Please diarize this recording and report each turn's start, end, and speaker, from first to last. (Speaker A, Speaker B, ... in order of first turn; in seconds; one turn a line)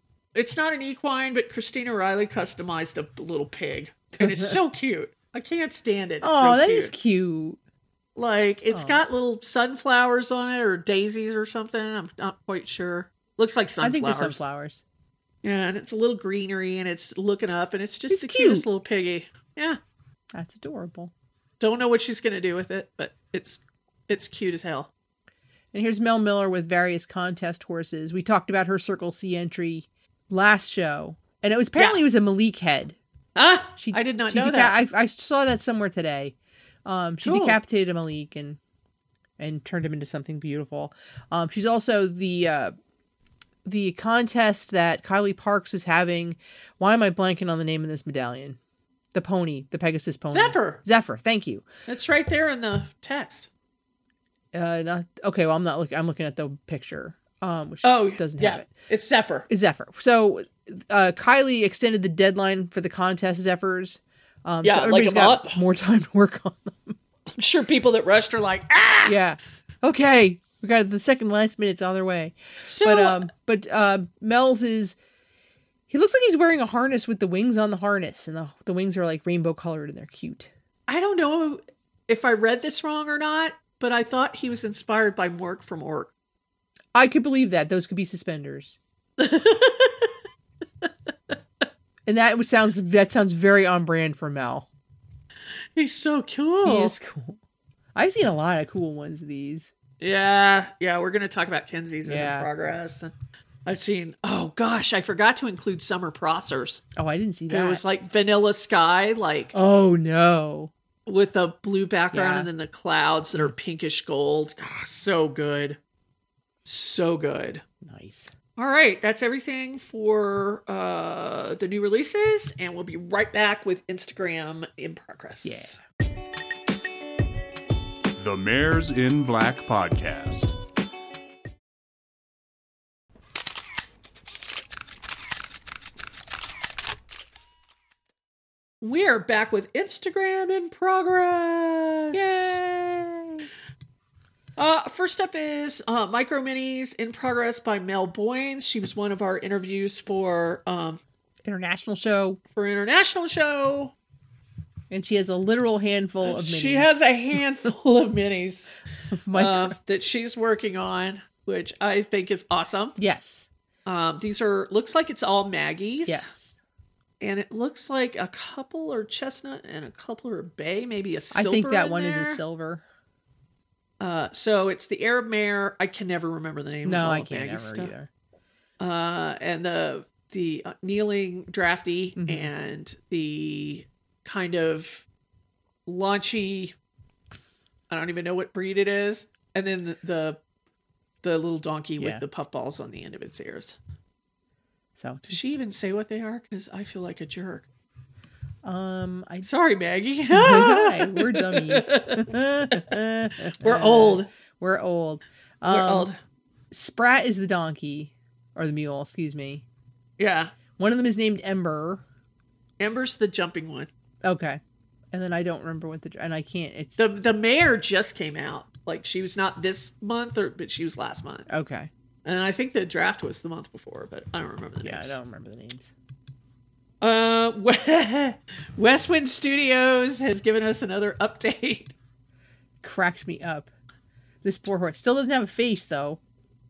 Speaker A: 0.3-6.9
Speaker B: 4.2-4.5
Speaker B: 6.2-7.6
Speaker A: 8.2-14.4
Speaker B: 8.7-9.0
Speaker B: 13.8-14.8
Speaker A: 15.4-19.8
Speaker B: 18.1-18.6
Speaker B: 20.3-21.1
Speaker A: 21.6-24.9
Speaker B: 25.7-33.0
Speaker A: 33.4-34.8
Speaker B: 33.8-38.6
Speaker A: 37.2-37.6
Speaker B: 39.4-42.7
Speaker B: 43.6-48.6
Speaker B: 49.1-51.7
Speaker A: 50.3-50.8
Speaker A: 51.9-53.5
Speaker B: 54.5-58.7
Speaker A: 57.8-59.5
Speaker B: 59.5-67.0
Speaker A: 64.6-65.6
Speaker A: 67.3-69.2
Speaker B: 69.0-75.0
Speaker A: 72.7-73.3
Speaker B: 75.9-80.5
Speaker A: 80.9-86.1
Speaker B: 86.9-88.8
Speaker A: 89.2-90.2
Speaker A: 90.8-91.3
Speaker B: 92.0-94.7
Speaker A: 95.8-96.9
Speaker B: 96.6-97.4
Speaker B: 97.9-99.7
Speaker A: 100.0-103.1
Speaker B: 102.0-102.5
Speaker A: 103.6-106.8
Speaker B: 107.0-107.8
Speaker A: 107.5-109.5
Speaker B: 109.5-110.7
Speaker A: 111.0-115.8
Speaker B: 112.1-112.5
Speaker A: 116.6-117.6
Speaker B: 117.8-118.3
Speaker A: 118.5-125.8
Speaker B: 125.4-125.8
Speaker C: 128.2-130.5
Speaker A: 138.8-142.6
Speaker B: 142.1-143.5
Speaker A: 144.6-151.0
Speaker B: 151.4-152.4
Speaker A: 152.5-153.9
Speaker B: 154.9-157.0
Speaker A: 156.2-158.7
Speaker B: 159.1-159.8
Speaker A: 159.3-163.0
Speaker B: 163.0-163.5
Speaker A: 163.8-166.3
Speaker B: 166.1-166.6
Speaker A: 167.2-172.4
Speaker B: 171.3-172.8
Speaker A: 174.0-177.9
Speaker B: 176.8-178.1
Speaker A: 178.8-185.1
Speaker B: 182.2-182.5
Speaker A: 185.9-186.7
Speaker A: 187.9-190.4
Speaker A: 191.2-193.8
Speaker B: 192.0-192.2
Speaker B: 195.0-195.4
Speaker A: 195.2-197.7
Speaker B: 198.6-199.5
Speaker A: 199.4-202.3
Speaker B: 200.3-206.1
Speaker A: 203.6-204.3
Speaker A: 205.7-206.2
Speaker B: 206.7-209.6
Speaker A: 210.2-210.5
Speaker B: 210.8-212.0
Speaker A: 212.8-213.9
Speaker B: 214.2-214.6
Speaker B: 215.1-217.0
Speaker A: 217.0-221.5
Speaker B: 221.5-221.9
Speaker A: 222.2-225.2
Speaker B: 224.8-225.9
Speaker A: 227.0-231.9
Speaker B: 232.8-233.7
Speaker B: 234.4-236.2